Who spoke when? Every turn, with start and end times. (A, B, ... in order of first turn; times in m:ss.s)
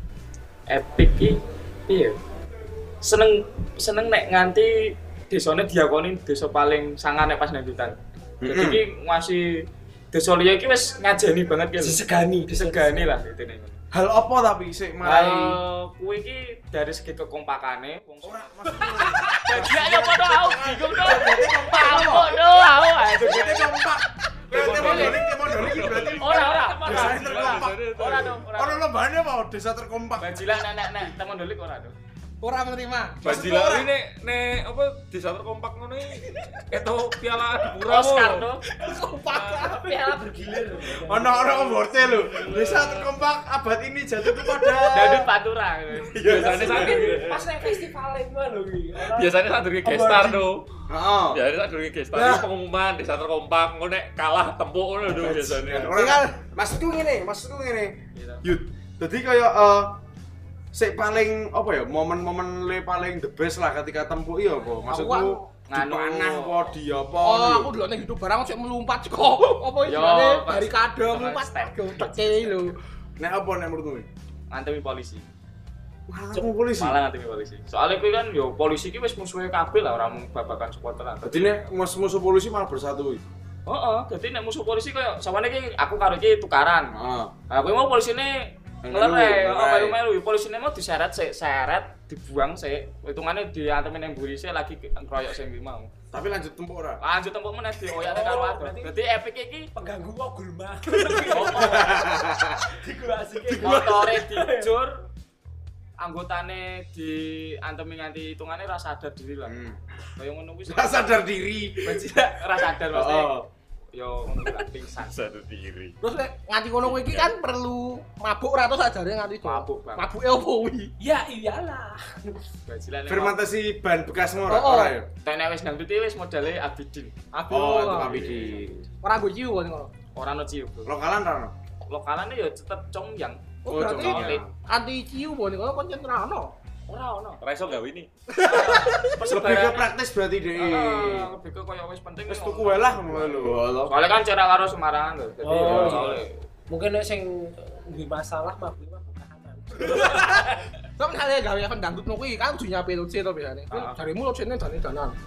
0:00.7-0:02.1 A
0:03.0-0:13.8 A
0:08.4-0:08.8 B
0:11.8-0:13.1 C
0:13.9-0:15.6 B
0:15.0-0:23.8 A
0:18.2-0:22.4 B
0:18.7-0:19.6 C
0:23.0-0:27.7 B
0:24.5-0:25.2 A
0:24.5-0:25.0 D
0:24.7-0:28.4 E
0:24.8-0:25.1 C
0:26.2-0:28.8 A
0:26.2-0:27.5 C
0:28.5-0:30.6 B
0:30.2-0:31.9 A
0:32.4-0:33.2 D
0:33.2-0:33.9 B
0:33.2-0:39.7 E
0:36.1-0:36.6 D
0:37.8-0:38.6 A
0:38.8-0:40.0 D
0:39.6-0:41.8 C
0:41.0-0:45.3 B
0:41.8-0:43.1 E
0:44.9-0:46.5 A
0:46.1-0:47.8 E
0:46.2-0:47.3 B
0:46.2-0:50.5 C
0:49.0-0:50.6 E
0:50.9-0:51.4 B
0:51.3-0:55.9 E
0:52.1-0:52.4 D
0:55.1-1:00.0 B
0:55.9-0:56.4 D
0:58.1-0:58.4 A
1:00.7-1:07.7 B
1:04.8-1:05.5 D
1:05.7-1:06.8 A
1:07.2-1:12.8 D
1:09.8-1:12.8 A
1:13.2-1:14.1 B
1:14.5-1:15.2 A
1:16.1-1:17.0 B
1:16.8-1:21.5 A
1:21.2-1:23.2 B
1:23.7-1:26.9 A
1:26.9-1:27.3 B
1:27.5-1:35.9 A
1:28.8-1:30.0 B
1:36.1-1:37.0 B
1:37.0-1:39.7 A
1:37.9-1:39.0 C
1:39.7-1:42.1 C
1:41.2-1:42.0 A
1:41.4-1:42.6 B
1:42.6-1:44.7 C
1:43.5-1:44.0 B
1:43.6-1:45.0 A
1:46.0-1:49.6 A
1:49.4-1:49.8 B
1:50.2-1:51.2 A
1:50.7-1:52.1 B
1:51.8-1:53.4 A
1:52.8-1:53.5 B
1:53.9-1:55.2 A
1:55.1-1:56.0 E
1:56.0-2:00.9 D
1:56.8-1:57.3 E
1:59.4-2:00.0 A
2:01.0-2:02.4 C
2:02.7-2:03.4 A
2:03.1-2:05.1 B
2:04.4-2:05.0 D
2:05.2-2:07.1 A
2:07.3-2:08.4 D
2:07.5-2:08.8 B
2:07.9-2:08.9 A
2:09.0-2:09.9 D
2:10.2-2:10.9 A
2:10.8-2:11.5 B
2:11.9-2:14.4 A
2:13.6-2:16.5 D
2:13.7-2:14.5 B
2:16.9-2:17.4 A
2:17.4-2:18.1 E
2:18.3-2:19.1 D
2:18.4-2:19.9 A
2:19.3-2:21.3 B
2:20.6-2:26.4 A
2:22.3-2:23.9 B
2:25.4-2:30.7 C
2:25.6-2:26.2 B
2:31.0-2:35.1 D
2:33.7-2:34.0 A